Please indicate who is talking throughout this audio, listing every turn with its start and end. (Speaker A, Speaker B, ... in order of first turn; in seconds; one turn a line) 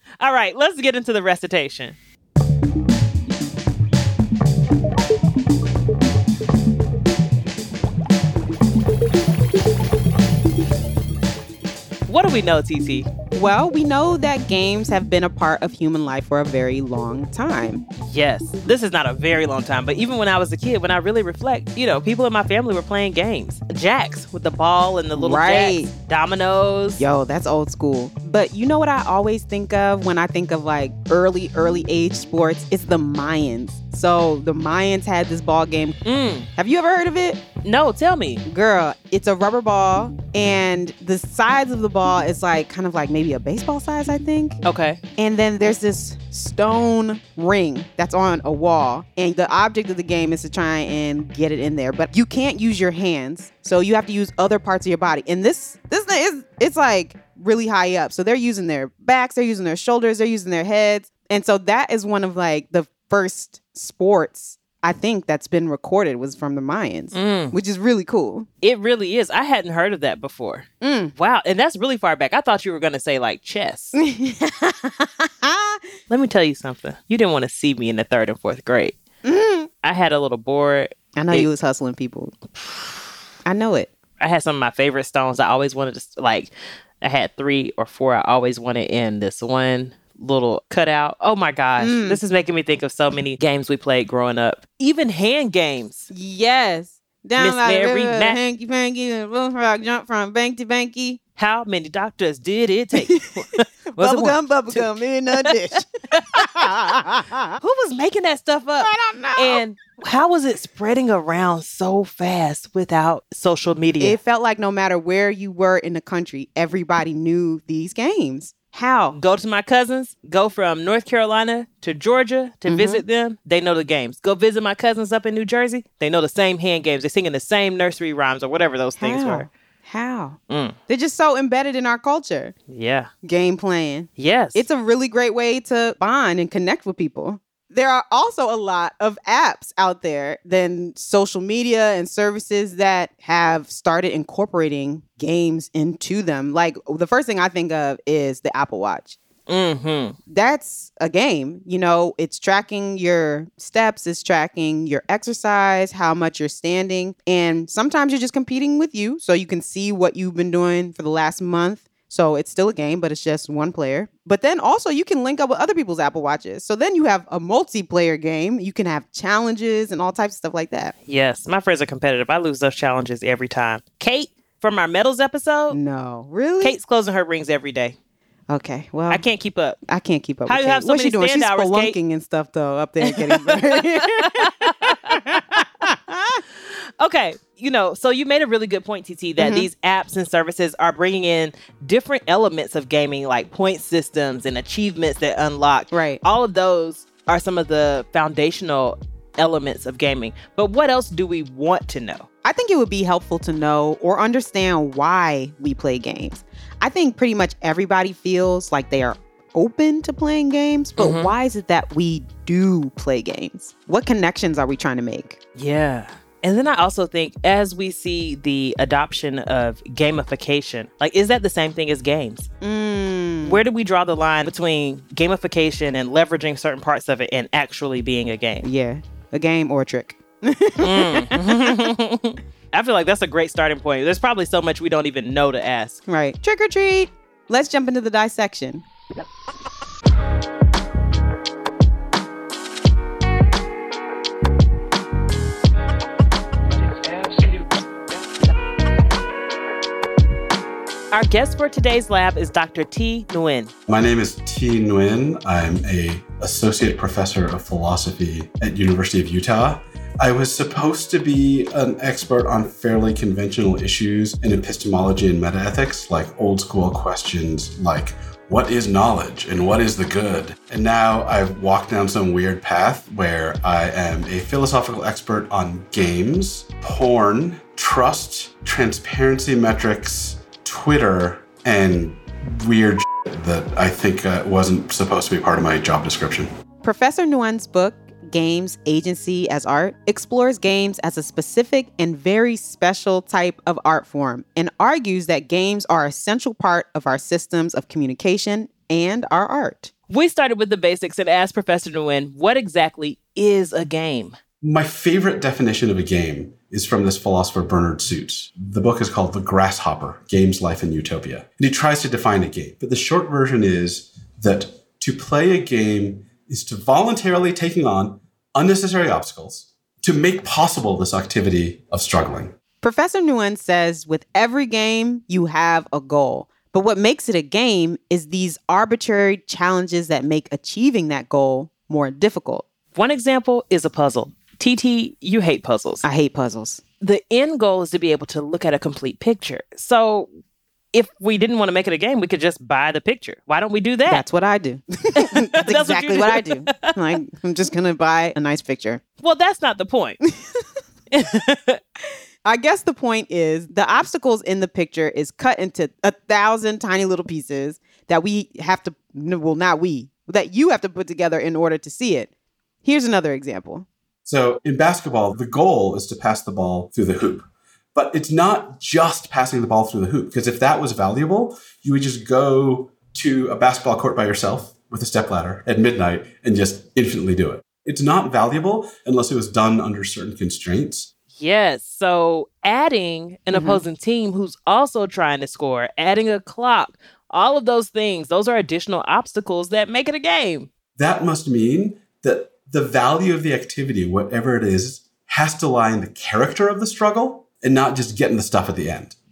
Speaker A: 0.2-2.0
Speaker A: 12.1-13.1
Speaker B: 13.3-17.8
Speaker A: 18.0-27.0
Speaker B: 25.1-25.9
Speaker B: 27.0-36.0
Speaker A: 36.0-36.5
Speaker B: 36.5-37.4
Speaker A: 37.6-38.4
Speaker B: 38.5-44.6
Speaker A: 44.6-45.0
Speaker B: 45.2-68.5
Speaker A: 67.1-67.5
Speaker A: 68.6-74.0
Speaker B: 70.8-71.1
Speaker B: 73.9-75.9
Speaker A: 76.1-79.0
Speaker B: 79.2-79.7
Speaker A: 79.8-81.5
Speaker B: 81.1-82.3
Speaker B: 83.4-83.9
Speaker A: 84.2-96.1
Speaker B: 91.8-92.2
Speaker B: 96.1-101.2
Speaker A: 97.4-98.4
Speaker A: 101.4-105.5
Speaker B: 103.9-107.6
Speaker A: 106.1-106.5
Speaker A: 107.6-114.2
Speaker B: 108.8-109.6
Speaker B: 114.0-119.2
Speaker A: 119.1-129.5
Speaker B: 122.7-123.0
Speaker B: 129.0-132.5
Speaker A: 130.5-130.8
Speaker A: 132.7-133.1
Speaker B: 133.2-149.2
Speaker A: 134.2-134.6
Speaker A: 149.5-150.2
Speaker B: 150.3-170.9
Speaker A: 171.1-175.8
Speaker B: 175.7-176.7
Speaker A: 176.6-177.9
Speaker B: 178.5-179.2
Speaker A: 179.1-179.8
Speaker B: 179.9-186.4
Speaker A: 180.5-181.9
Speaker A: 183.0-185.6
Speaker A: 186.6-202.2
Speaker B: 189.4-189.7
Speaker B: 195.9-196.2
Speaker B: 202.4-215.4
Speaker A: 211.0-211.3
Speaker A: 215.6-222.5
Speaker B: 222.6-223.6
Speaker A: 223.4-228.7
Speaker B: 228.6-231.8
Speaker A: 230.8-236.0
Speaker B: 236.1-238.8
Speaker A: 251.1-253.7
Speaker C: 253.9-286.5
Speaker B: 286.8-299.9
Speaker A: 300.1-304.4
Speaker C: 304.6-322.5
Speaker B: 322.8-332.6
Speaker A: 332.9-336.0
Speaker B: 336.0-336.8
Speaker A: 337.0-340.3
Speaker A: 340.9-344.2
Speaker B: 344.1-349.0
Speaker A: 345.1-346.9
Speaker A: 349.2-350.2
Speaker B: 350.3-350.6
Speaker A: 351.1-351.8
Speaker B: 352.4-362.3
Speaker B: 362.8-363.9
Speaker C: 364.2-381.1
Speaker A: 381.4-390.7
Speaker B: 383.5-383.8
Speaker C: 391.0-399.1